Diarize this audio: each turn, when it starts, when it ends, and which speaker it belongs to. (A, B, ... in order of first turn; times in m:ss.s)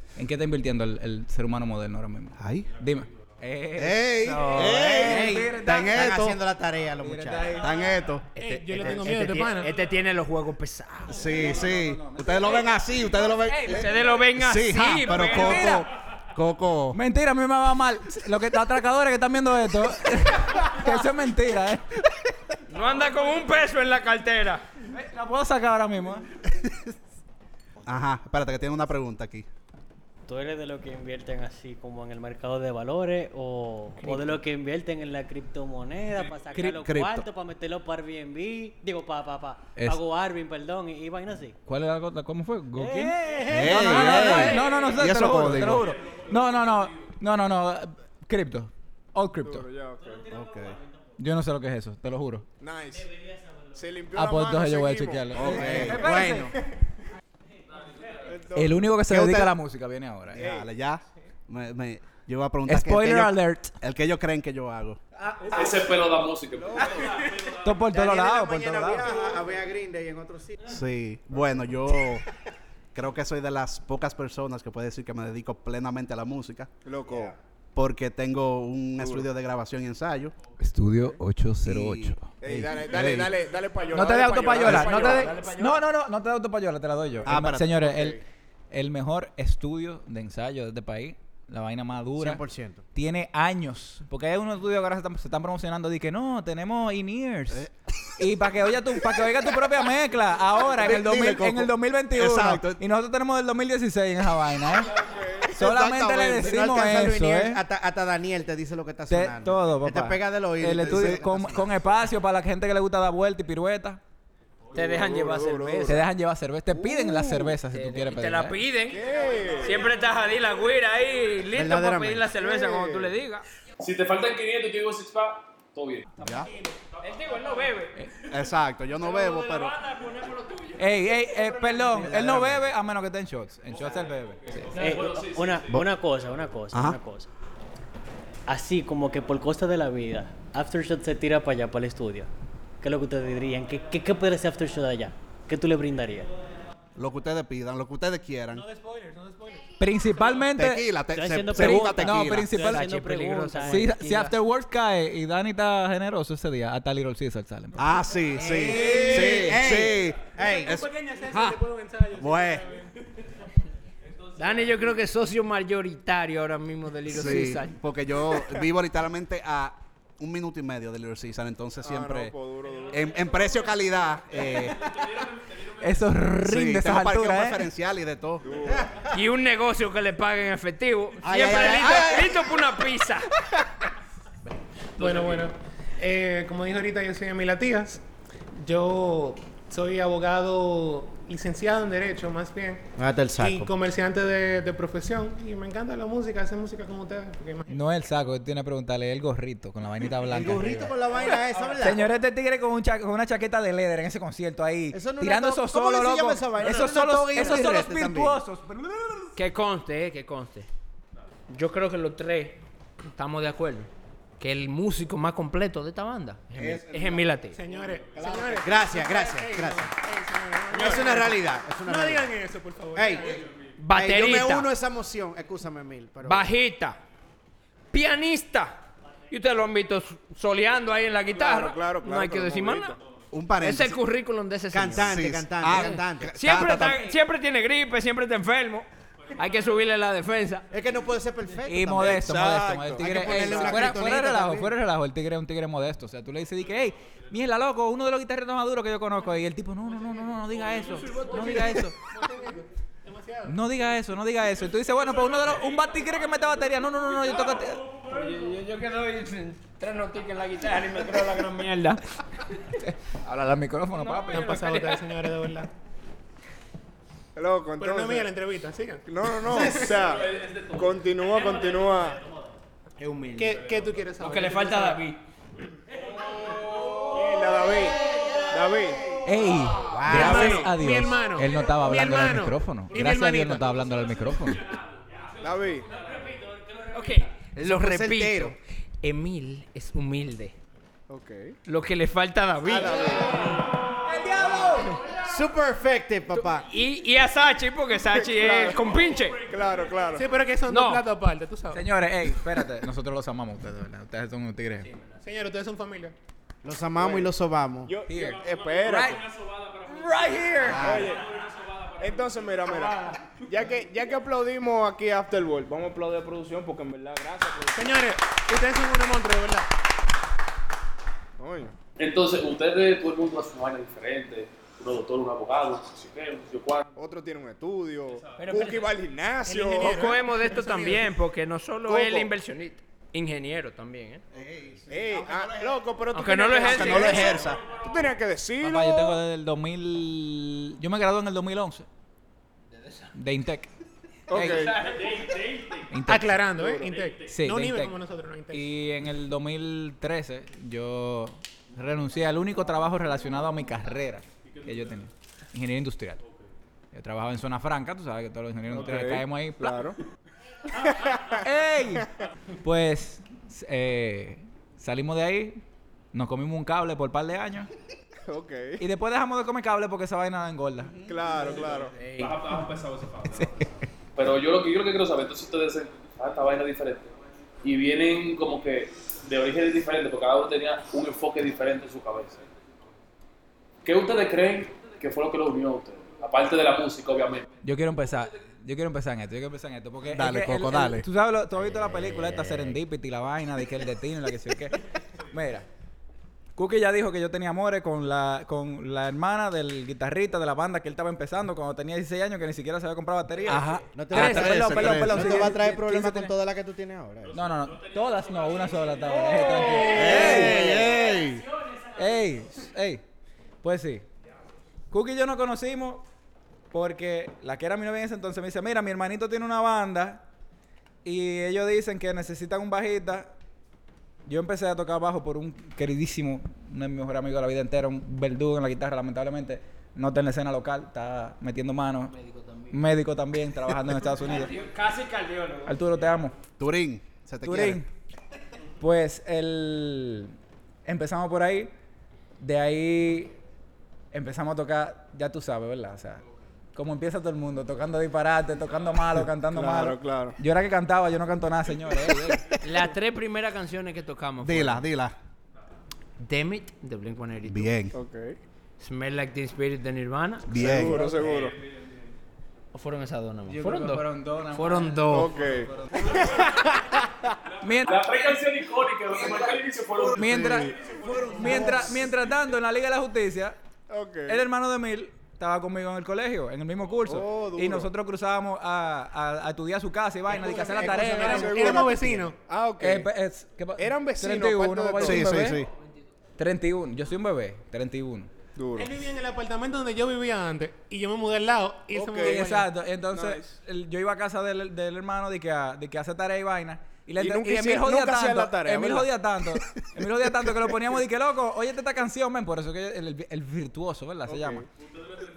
0:00.2-0:06.3 A
0:02.4-0:02.7 B
0:03.8-0:06.4 B
0:04.3-0:04.8 C
0:04.7-0:07.7 D
0:07.0-0:07.7 A
0:07.5-0:08.3 B
0:08.4-0:09.7 E
0:08.5-0:09.5 D
0:08.5-0:11.5 C
0:11.1-0:17.0 B
0:11.3-0:12.5 A
0:13.5-0:15.9 C
0:15.2-0:15.8 A
0:16.9-0:21.8 A
0:22.7-0:24.7 C
0:24.9-0:26.3 A
0:27.8-0:29.5 B
0:30.3-0:41.6 F
0:34.0-0:34.3 C
0:36.5-0:36.9 A
0:36.7-0:37.2 B
0:41.7-0:49.7 A
0:42.8-0:44.5 F
0:43.5-0:45.9 B
0:43.9-0:44.4 C
0:49.4-0:50.3 G
0:50.3-0:50.8 B
0:51.2-0:52.5 A
0:52.6-0:53.1 G
0:53.7-0:55.9 G
0:54.1-0:56.5 A
0:55.4-0:56.1 B
0:55.4-0:56.5 D
0:58.2-0:59.0 G
0:58.5-1:00.4 A
0:59.0-0:59.6 B
1:00.3-1:05.0 B
1:00.3-1:00.7 G
1:02.7-1:03.7 A
1:05.5-1:07.2 H
1:06.6-1:07.3 G
1:07.5-1:09.1 A
1:07.9-1:10.8 D
1:10.7-1:12.2 B
1:12.9-1:16.7 B
1:16.8-1:17.4 G
1:17.8-1:20.4 B
1:19.0-1:19.3 G
1:20.6-1:22.4 A
1:21.6-1:23.4 B
1:22.4-1:25.7 G
1:23.9-1:28.2 A
1:25.0-1:25.5 C
1:27.2-1:27.9 B
1:27.4-1:28.2 G
1:28.7-1:32.4 A
1:32.2-1:32.8 D
1:32.9-1:47.6 A
1:40.7-1:42.8 B
1:45.0-1:45.6 G
1:45.6-1:46.6 B
1:45.7-1:51.7 D
1:49.1-1:54.0 A
1:50.8-1:51.3 B
1:54.7-1:56.0 C
1:54.8-1:56.1 G
1:55.9-1:58.6 A
1:56.7-1:57.1 G
1:57.6-2:03.4 C
1:58.8-1:59.9 G
2:01.5-2:02.3 D
2:02.3-2:03.2 G
2:03.8-2:06.1 H
2:06.2-2:06.8 E
2:06.2-2:06.5 B
2:07.0-2:08.0 C
2:08.2-2:09.8 B
2:09.0-2:12.3 C
2:10.8-2:14.8 A
2:14.7-2:15.6 H
2:14.7-2:17.3 F
2:16.7-2:17.0 B
2:18.5-2:22.3 F
2:22.8-2:26.3 F
2:27.0-2:28.6 B
2:28.5-2:29.8 E
2:29.8-2:30.9 A
2:30.5-2:32.5 B
2:31.1-2:33.9 F
2:31.5-2:33.0 A
2:32.5-2:34.4 C
2:33.6-2:37.9 A
2:37.8-2:41.6 B
2:38.4-2:39.5 E
2:38.4-2:40.8 D
2:40.4-2:43.0 E
2:42.1-2:42.7 B
2:44.4-2:47.8 C
2:47.1-2:52.4 B
2:51.8-2:53.1 G
2:52.9-2:55.1 B
2:55.8-2:57.7 A
2:56.4-2:58.8 B
2:58.4-2:59.0 G
2:59.0-3:03.3 C
3:01.2-3:02.5 B
3:05.0-3:08.0 E
3:05.0-3:05.4 C
3:08.5-3:17.8 E
3:13.0-3:13.7 D
3:17.7-3:21.0 A
3:20.2-3:22.1 D
3:21.8-3:29.0 A
3:24.9-3:28.4 D
3:29.4-3:30.7 C
3:31.5-3:37.6 C
3:36.6-3:37.2 B
3:36.9-3:38.7 G
3:37.5-3:43.4 E
3:38.6-3:39.9 D
3:40.7-3:42.4 D
3:43.0-3:43.4 D
3:43.8-3:44.7 C
3:43.9-3:46.5 D
3:46.2-3:47.0 C
3:47.9-3:53.0 C
3:51.3-3:53.0 G
3:53.3-3:54.0 B
3:53.6-4:00.7 C
3:54.7-3:56.4 D
3:55.0-3:57.1 B
4:00.7-4:02.2 D
4:01.7-4:12.0 A
4:02.0-4:03.7 G
4:03.0-4:04.8 D
4:03.2-4:03.8 C
4:10.5-4:11.9 C
4:11.2-4:13.6 E
4:13.5-4:17.9 A
4:17.9-4:22.0 C
4:22.8-4:24.7 A
4:23.9-4:25.2 C
4:24.3-4:25.7 E
4:27.4-4:28.3 G
4:27.8-4:29.4 E
4:29.0-4:32.2 G
4:29.6-4:29.9 C
4:33.0-4:35.2 C
4:33.4-4:35.0 E
4:36.5-4:39.2 G
4:39.2-4:44.7 A
4:39.9-4:40.7 D
4:40.1-4:43.8 E
4:40.1-4:40.7 G
4:45.4-4:45.9 G
4:46.9-4:50.6 C
4:47.6-4:48.6 D
4:51.1-4:51.6 G
4:51.6-4:53.5 C
4:52.7-4:53.5 G
4:54.0-4:55.0 A
4:54.7-4:55.0 C
4:55.2-4:56.7 D
4:56.5-4:59.5 C
4:58.1-5:00.3 G
5:00.2-5:01.9 E
5:00.6-5:01.1 C
5:01.7-5:04.9 A
5:05.2-5:06.2 E
5:06.6-5:08.0 D
5:06.9-5:07.3 G
5:07.8-5:09.2 G
5:08.1-5:09.2 A
5:09.8-5:11.0 A
5:10.7-5:11.1 D
5:10.7-5:11.3 G
5:12.0-5:18.1 G
5:12.9-5:13.1 C
5:17.8-5:19.7 E
5:21.4-5:21.8 G
5:22.0-5:26.8 H
5:27.0-5:31.0 G
5:28.4-5:29.0 C
5:29.4-5:30.2 E
5:29.8-5:34.2 C
5:31.9-5:32.3 G
5:34.3-5:35.8 B
5:34.9-5:39.2 G
5:36.1-5:37.5 C
5:36.6-5:37.6 B
5:38.6-5:41.9 A
5:42.7-5:43.1 C
5:43.1-5:43.7 A
5:44.3-5:44.7 A
5:44.3-5:44.8 G
5:44.5-5:45.4 C
5:45.9-5:46.5 A
5:46.0-5:48.7 E
5:46.5-5:47.1 G
5:47.2-5:48.0 A
5:48.5-5:56.2 A
5:56.9-5:59.9 A
5:58.7-6:00.0 G
6:00.9-6:01.4 G
6:01.4-6:02.1 A
6:02.6-6:05.6 A
6:06.1-6:07.7 A
6:08.3-6:08.9 G
6:08.8-6:11.0 A
6:10.8-6:11.2 B
6:11.0-6:12.0 G
6:11.8-6:12.4 C
6:12.2-6:13.5 H
6:13.3-6:13.6 A
6:14.2-6:22.4 H
6:23.8-6:27.5 H
6:27.6-6:35.7 A
6:30.1-6:31.1 B
6:31.7-6:32.1 D
6:36.6-6:46.3 A
6:43.5-6:45.5 B
6:43.9-6:47.5 D
6:44.2-6:44.7 C
6:47.3-6:50.8 A
6:49.8-6:51.0 D
6:49.9-6:51.5 B
6:52.0-6:53.0 A
6:53.6-6:54.1 A
6:54.9-6:56.0 A
6:56.7-7:00.2 A
7:01.0-7:03.3 A
7:04.3-7:12.2 A
7:12.1-7:12.8 C
7:12.7-7:14.6 A
7:14.2-7:15.8 C
7:15.7-7:16.4 A
7:16.6-7:17.8 B
7:17.4-7:17.9 A
7:18.8-7:20.4 A
7:20.9-7:21.7 A
7:22.4-7:23.4 A
7:24.1-7:26.2 A
7:26.8-7:32.6 A
7:29.4-7:30.4 G
7:32.6-7:34.8 C
7:34.4-7:35.2 B
7:36.2-7:37.8 C
7:37.4-7:38.0 B
7:37.9-7:38.4 G
7:38.8-7:41.3 C
7:40.5-7:41.0 B
7:40.5-7:41.6 G
7:42.7-7:45.3 C
7:43.5-7:45.2 A
7:45.1-7:45.7 G
7:45.7-7:46.5 A
7:47.6-7:48.0 A
7:47.8-7:50.5 H
7:50.1-7:53.6 A
7:50.2-7:51.9 G
7:51.2-7:51.8 D
7:53.9-7:54.5 G
7:54.3-8:01.7 A
7:57.0-7:57.9 G
8:00.3-8:02.3 D
8:00.3-8:02.4 E
8:00.5-8:03.1 G
8:02.8-8:05.6 A
8:03.8-8:05.4 G
8:05.0-8:05.7 B
8:06.4-8:08.3 A
8:08.6-8:09.0 G
8:08.8-8:12.6 E
8:11.9-8:13.6 G
8:12.2-8:24.7 A
8:17.2-8:19.2 G
8:24.2-8:24.7 G